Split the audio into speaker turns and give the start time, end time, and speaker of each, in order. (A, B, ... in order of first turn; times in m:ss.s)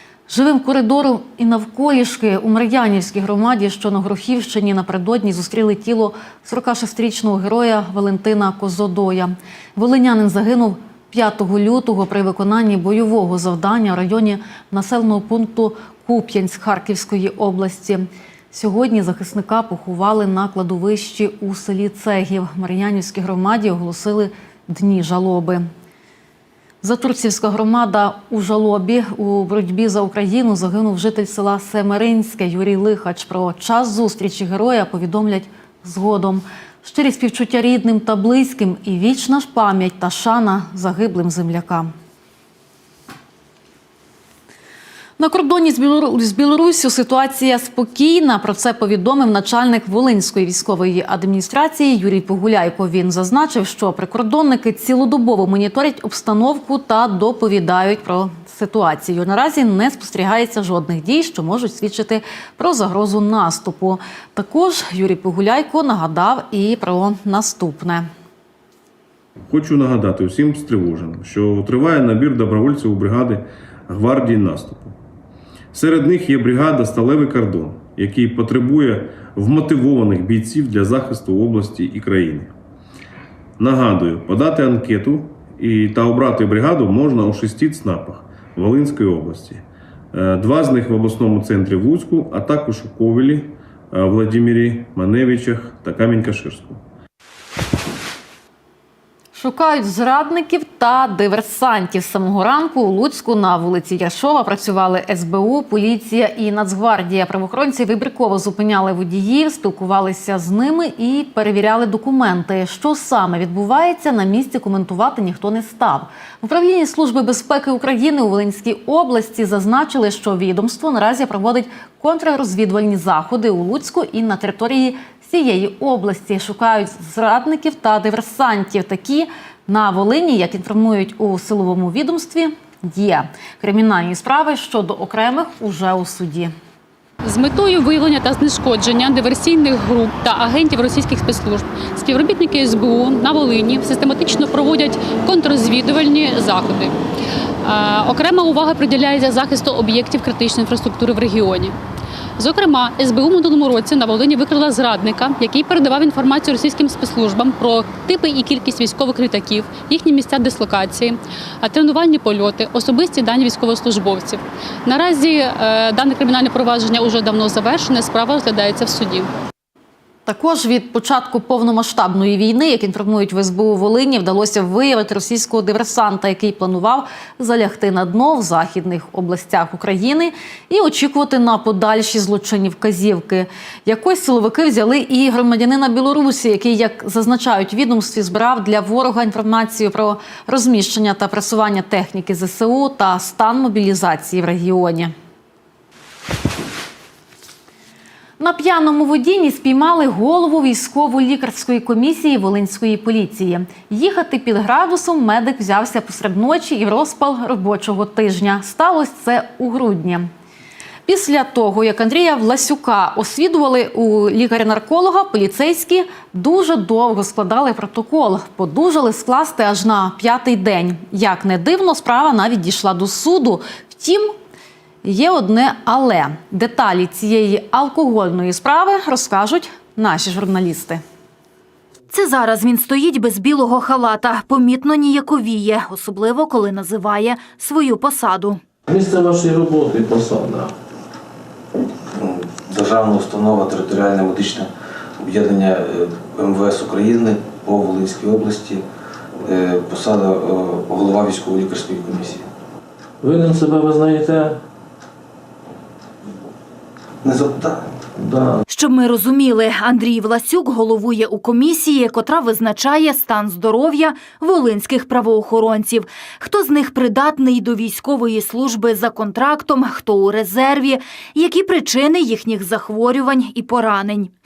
0:00.3-0:25.6 A
0:26.8-0:41.9 A
0:45.2-1:08.1 A
1:09.5-1:15.0 B
1:15.7-1:22.5 B
1:23.6-1:36.8 B
1:39.3-2:16.5 A
2:17.2-2:27.0 C
2:27.6-2:31.8 C
2:32.4-2:49.3 C
2:50.3-3:15.1 A
3:18.4-3:30.3 A
3:31.1-3:44.3 A
3:45.0-3:51.0 A
3:52.1-3:58.6 D
3:58.9-4:00.7 E
4:02.2-4:08.8 F
4:09.4-4:12.5 F
4:13.2-4:14.6 E
4:17.2-4:17.9 F
4:18.2-4:18.6 E
4:18.7-4:34.3 D